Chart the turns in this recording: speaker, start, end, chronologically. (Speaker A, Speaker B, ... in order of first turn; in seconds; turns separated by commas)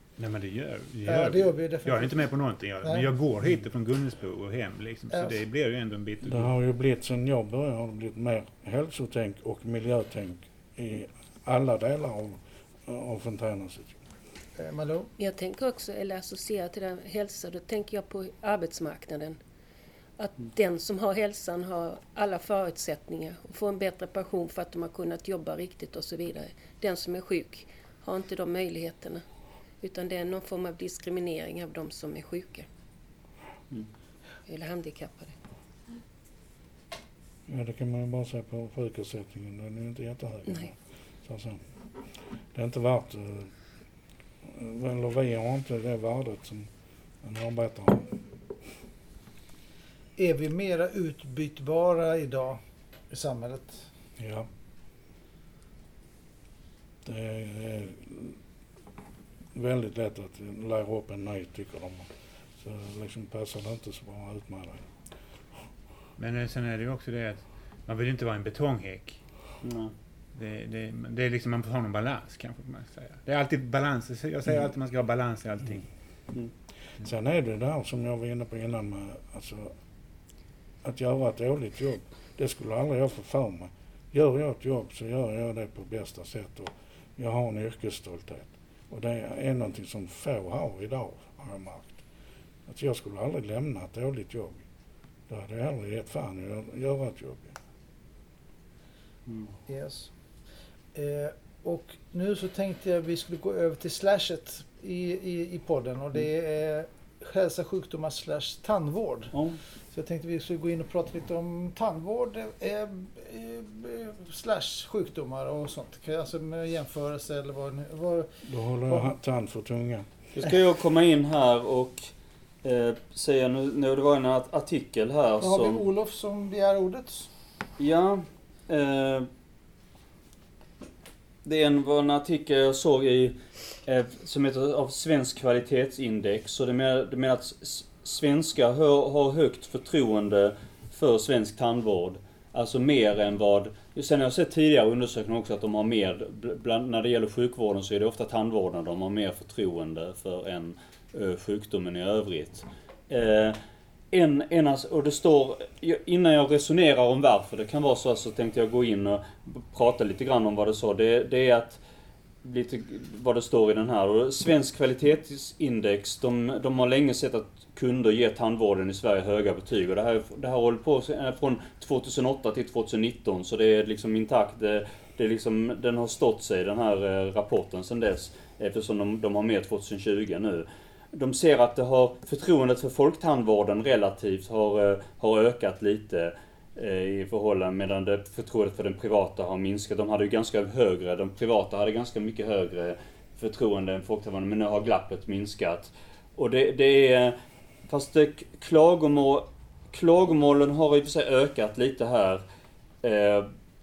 Speaker A: 0.2-6.5, Speaker B: 1.1-2.3, Speaker C: 6.2-14.0, Speaker B: 14.6-15.1, Speaker D: 15.2-19.4, Speaker D: 20.2-29.2, Speaker D: 29.8-32.7, Speaker D: 34.5-35.4, Speaker C: 37.5-41.7, Speaker C: 42.5-43.5, Speaker C: 44.4-46.7, Speaker C: 47.2-48.2, Speaker B: 50.2-53.9, Speaker C: 54.2-54.5, Speaker C: 57.0-58.4, Speaker C: 59.5-64.9, Speaker A: 66.2-69.2, Speaker E: 69.6-69.9, Speaker A: 70.3-75.8, Speaker C: 77.0-79.7, Speaker C: 80.8-92.0, Speaker C: 92.7-94.7, Speaker C: 95.3-97.6, Speaker E: 99.3-99.5, Speaker B: 99.7-100.1, Speaker B: 100.9-119.1, Speaker E: 109.3-109.6, Speaker C: 118.5-120.1, Speaker E: 120.3-122.1, Speaker E: 122.6-125.8, Speaker B: 125.4-127.3, Speaker E: 127.8-129.3, Speaker E: 131.4-153.6, Speaker E: 154.1-161.8, Speaker E: 162.4-197.3, Speaker E: 197.9-202.4, Speaker E: 203.0-203.5